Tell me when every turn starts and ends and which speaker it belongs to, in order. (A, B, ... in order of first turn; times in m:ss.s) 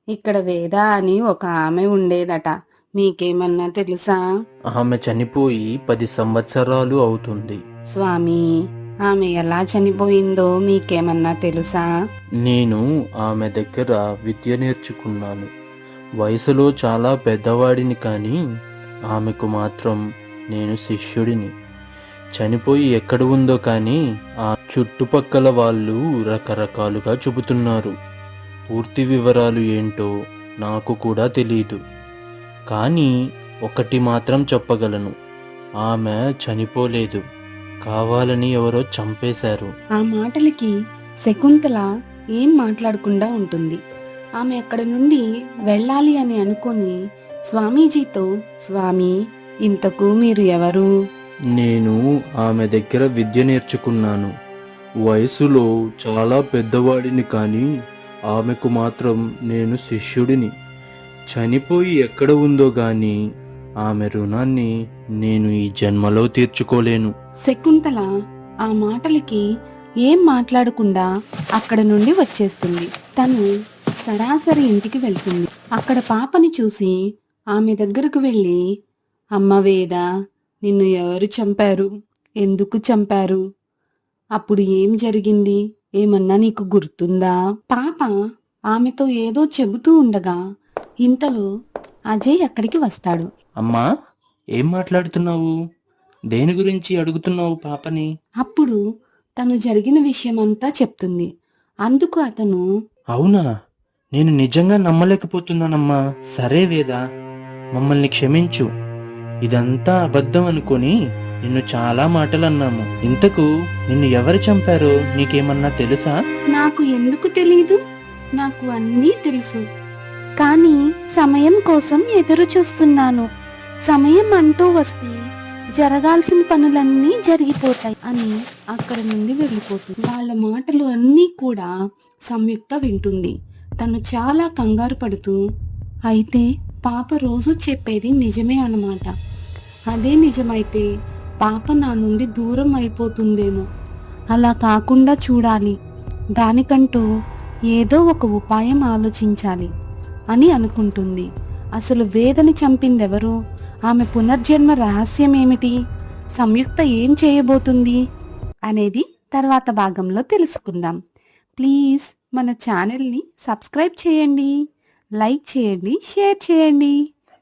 0:00.1-0:04.2 A
0:04.7-0:07.6 B
0:07.9-0:08.4 A
0:09.1-0:11.9 A
0:12.4-0:15.5 B
0:16.2-0:18.4 B
0:19.1-0:20.0 B
0:20.5-0:21.5 B
0:22.4-0:24.0 B
0:24.7-0:27.9 B
0:28.7-0:30.1 B
0:30.6-0:31.8 B
0:32.7-0:33.1 B
0:33.7-0:35.1 B
0:35.8-0:37.2 B
0:37.8-0:39.7 B
0:40.0-0:40.7 A
0:41.2-0:43.8 A
0:44.4-0:46.9 A
0:47.5-0:49.1 A
0:49.6-0:50.9 A
0:51.6-0:54.3 B
0:55.0-0:57.7 B
0:58.3-1:00.5 B
1:01.3-1:03.2 B
1:03.8-1:04.7 B
1:05.2-1:07.1 B
1:07.5-1:08.1 A
1:08.7-1:09.4 A
1:10.0-1:11.1 A
1:11.6-1:13.4 A
1:14.1-1:17.0 A
1:17.5-1:18.6 A
1:19.4-1:20.0 A
1:20.6-1:21.9 A
1:22.4-1:23.4 A
1:24.4-1:28.1 A
1:28.7-1:30.4 A
1:31.0-1:31.5 A
1:32.1-1:33.3 A
1:34.6-1:35.5 B
1:36.3-1:38.1 B
1:38.4-1:38.8 A
1:39.4-1:41.3 A
1:41.9-1:42.6 A
1:43.1-1:43.4 B
1:44.1-1:47.0 B
1:47.8-1:48.7 B
1:49.4-1:50.9 B
1:51.4-1:56.1 B
1:56.5-1:57.8 A
1:58.4-1:59.6 A
2:00.4-2:03.3 A
2:03.9-2:05.2 A
2:05.8-2:11.7 A
2:12.3-2:15.4 A
2:16.1-2:19.1 A
2:19.9-2:20.8 A
2:21.4-2:23.6 A
2:24.3-2:25.8 A
2:26.4-2:27.1 A
2:27.7-2:29.7 A
2:30.3-2:31.3 A
2:31.8-2:33.4 A
2:33.9-2:35.7 A
2:36.4-2:38.0 A
2:38.7-2:41.0 A
2:41.6-2:44.5 A
2:45.2-2:47.0 A